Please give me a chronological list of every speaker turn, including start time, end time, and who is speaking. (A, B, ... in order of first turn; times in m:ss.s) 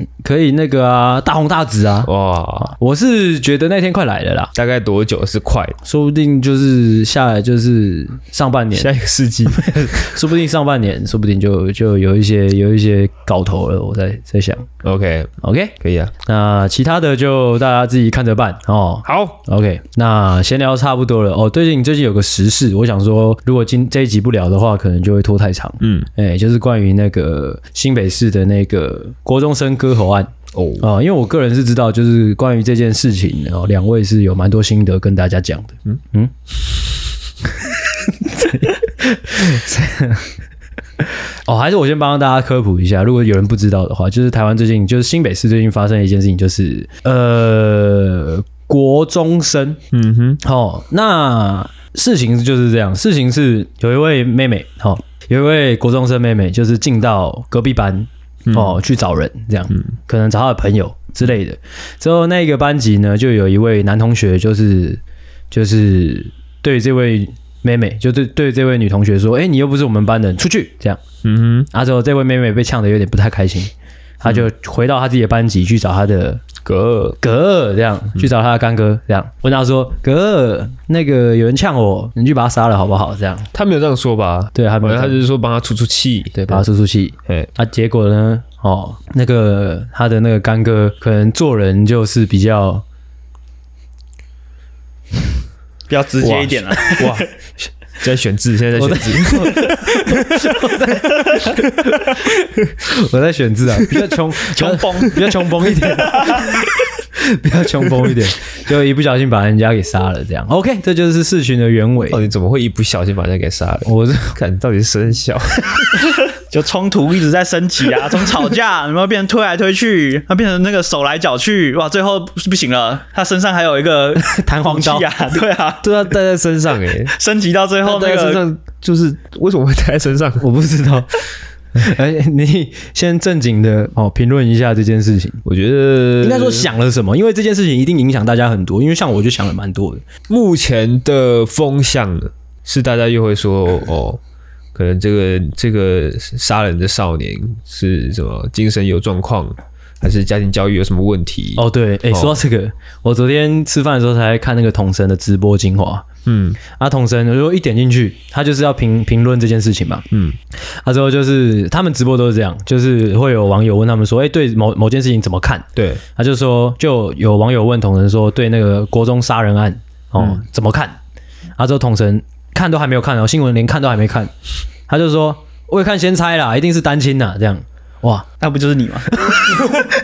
0:00.2-0:04.5 A
0:02.0-0:02.7 B
0:04.5-0:05.8 B
0:05.8-0:08.9 A
0:08.7-0:10.1 B
0:09.5-0:14.7 A
0:14.8-0:16.1 B
0:15.4-0:36.3 A
0:19.0-0:19.4 B
0:25.8-0:26.1 B
0:30.5-0:30.8 B
0:38.1-0:40.3 A
0:41.4-0:49.8 A
0:49.9-0:50.4 B
0:50.4-1:11.0 A
0:58.5-0:58.8 B
1:11.2-1:11.7 B
1:11.7-1:16.4 A
1:16.6-1:17.2 B
1:17.2-1:23.5 A
1:23.5-1:26.6 B
1:24.5-1:25.2 A
1:26.3-1:32.8 A
1:35.9-1:37.3 C
1:36.2-1:39.7 B
1:38.7-1:46.6 A
1:44.4-1:46.6 C
1:47.2-1:52.2 A
1:52.0-1:56.1 B
1:53.8-1:54.4 A
1:56.3-2:06.0 C
2:04.2-2:05.1 A
2:05.8-2:07.1 B
2:07.1-2:08.4 C
2:07.8-2:10.5 B
2:10.4-2:11.1 A
2:11.7-2:15.4 A
2:15.4-2:16.7 B
2:16.2-2:20.0 A
2:20.3-2:24.2 B
2:24.7-2:32.4 B
2:31.6-2:36.1 A
2:36.2-2:36.6 B
2:36.8-2:40.0 A
2:40.1-2:40.4 B
2:40.7-2:51.0 A
2:45.8-2:46.0 B
2:51.6-2:54.3 A
2:54.9-2:58.3 A
2:58.4-2:59.4 C